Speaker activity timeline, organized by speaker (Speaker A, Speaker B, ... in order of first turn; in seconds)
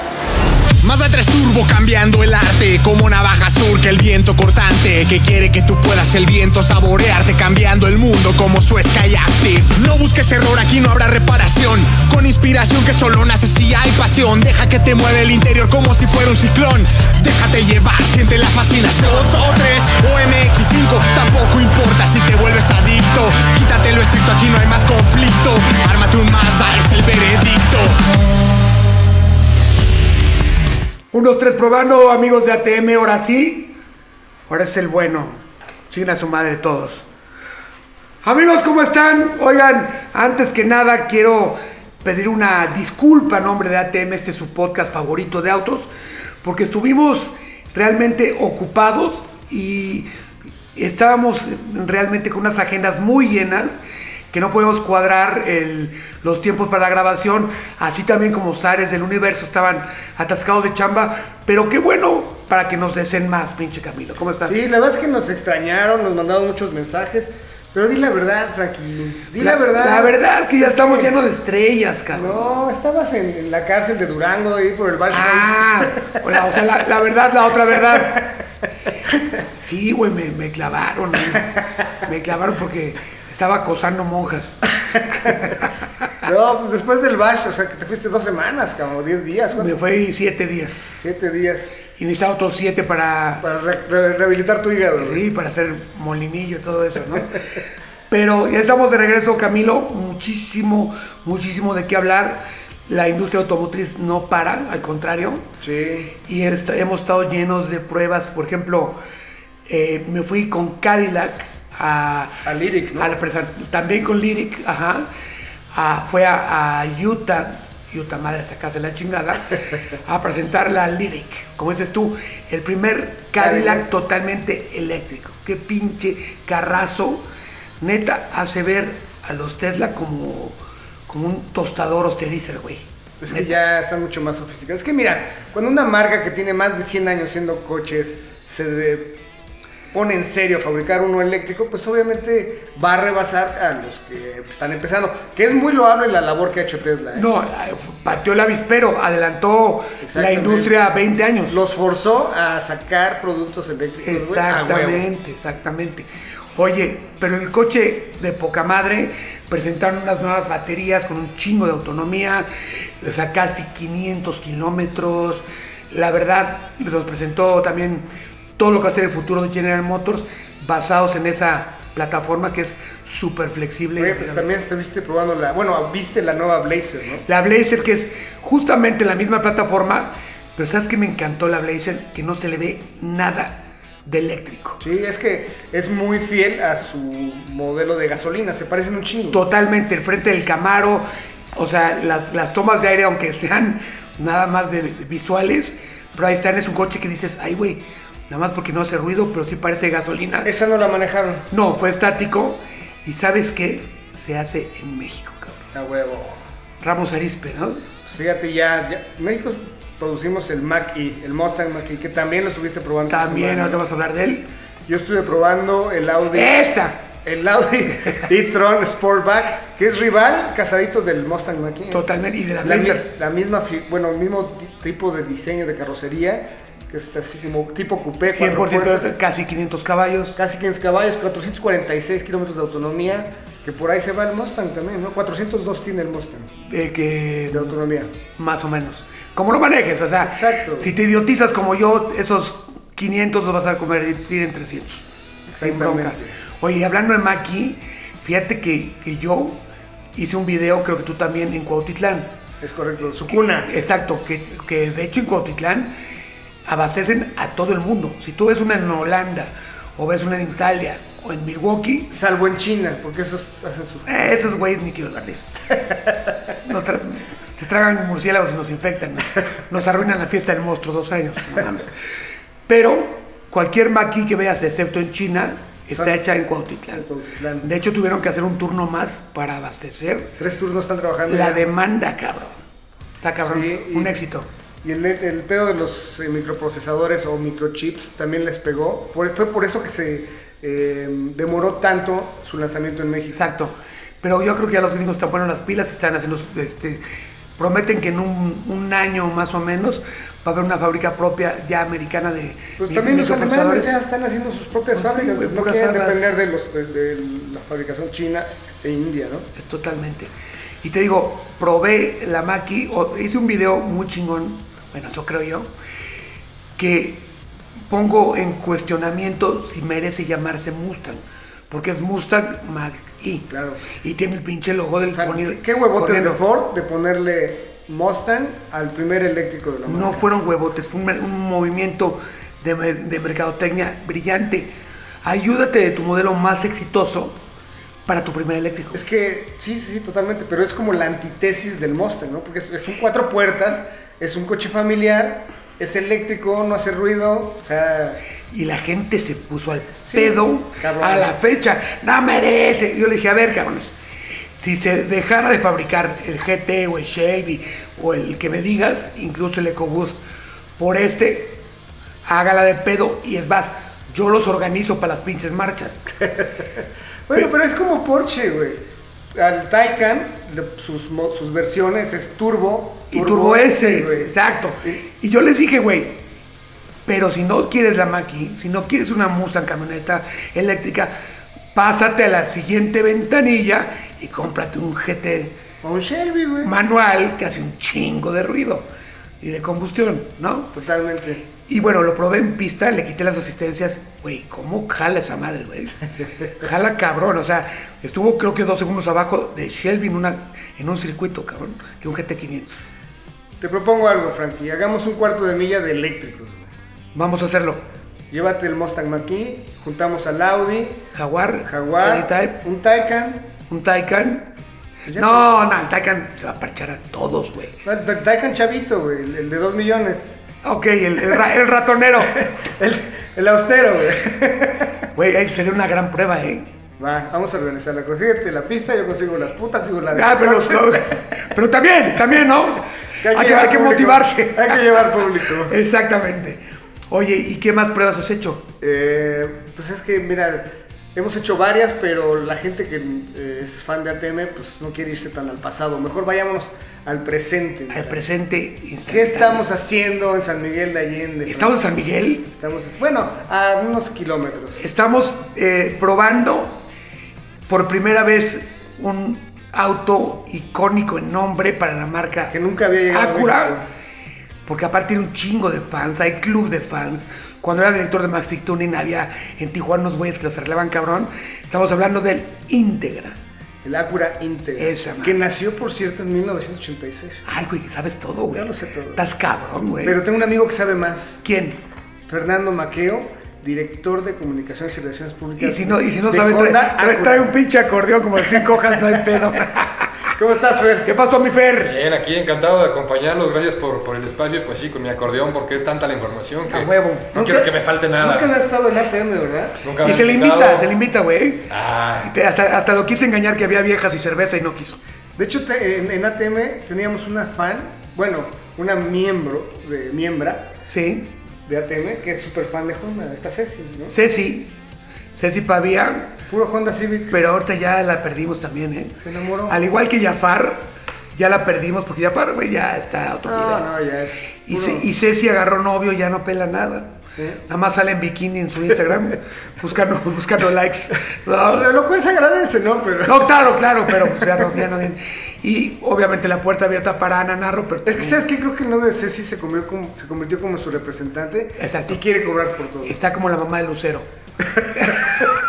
Speaker A: 0.8-27.9
Speaker B: 31.1-33.8, 34.5-35.4, 35.9-37.1, 38.2-45.9, 46.4-50.1, 50.8-53.8, 54.3-64.6, 69.4-72.7, 75.1-78.3, 79.5-84.6, 89.6-91.0, 92.0-93.4, 95.0-97.4, 98.1-105.5, 106.2-109.0, 109.7-112.4, 113.0-115.1, 115.7-127.2, 127.8-130.6, 131.1-133.6, 147.1-151.6, 154.0-168.1, 168.6-174.5, 177.3-184.8, 189.3-200.5, 201.5-205.7, 206.8-207.8, 213.1-214.5, 216.3-217.1, 221.9-223.1, 228.3-230.4, 236.7-237.8, 238.4-245.0, 245.6-249.6, 250.2-252.3, 253.3-255.9, 256.6-262.1, 264.1-265.6, 266.6-271.9, 272.7-277.1, 277.6-280.4, 281.3-282.6, 283.2-284.5, 293.3-297.0, 297.6-304.0, 304.9-306.3, 309.6-310.3, 310.8-315.7, 316.8-317.3, 317.9-326.4, 329.9-337.4, 338.1-339.0, 348.5-353.9, 354.6-360.2, 360.8-361.6, 362.2-366.1, 373.1-376.2, 377.1-381.1, 381.7-385.6, 386.6-388.9, 389.4-390.8, 391.7-396.0, 396.6-402.8, 407.1-407.8, 411.1-412.6, 413.7-414.5, 415.1-417.8, 420.6-422.5, 425.1-426.7, 430.1-438.7, 447.9-449.7, 451.5-452.5, 454.8-456.8, 457.7-462.5, 463.1-463.8, 464.7-473.4, 474.8-475.4, 477.5-480.2, 481.4-481.8, 485.6-490.2, 491.1-492.0, 496.7-497.4, 500.0-501.7, 502.2-505.0, 510.9-511.4, 514.1-514.7, 515.3-516.4, 517.3-519.2, 519.7-523.9, 524.7-527.2, 527.7-531.9, 533.2-538.4, 541.8-542.2, 543.0-544.3, 545.0-545.3
Speaker C: 64.4-71.1, 72.1-76.2, 84.9-85.5, 86.2-89.8, 91.0-91.7, 93.4-95.2, 105.6-106.2, 112.5-113.1, 123.4-123.9, 133.2-139.2, 139.9-147.3, 150.0-150.8, 151.5-155.1, 174.0-177.3, 184.8-189.4, 200.4-201.5, 205.7-206.4, 208.1-213.8, 214.9-216.6, 217.2-222.0, 222.6-229.1, 230.4-236.5, 237.5-238.1, 240.2-240.9, 245.5-246.3, 252.6-253.7, 262.1-264.5, 276.9-277.7, 280.4-281.6, 283.4-284.2, 284.8-293.5, 302.8-309.5, 323.5-323.9, 325.1-330.3, 338.9-348.2, 350.1-351.4, 367.3-374.3, 385.8-386.7, 390.7-391.5, 403.6-406.7, 408.3-411.1, 411.6-413.5, 415.1-415.5, 417.8-420.3, 422.3-425.0, 427.0-431.3, 433.2-435.8, 438.8-448.2, 449.1-451.8, 452.5-454.8, 462.5-463.9, 473.8-477.5, 478.5-479.2, 480.0-481.4, 482.3-487.5, 488.6-489.1, 490.4-491.1, 497.3-499.8, 505.4-510.7, 511.6-514.2, 516.5-517.4, 519.2-519.8, 523.5-525.1, 531.7-534.9, 538.1-543.2, 544.7-545.2
Speaker D: 491.8-498.6, 499.8-500.9, 501.7-502.4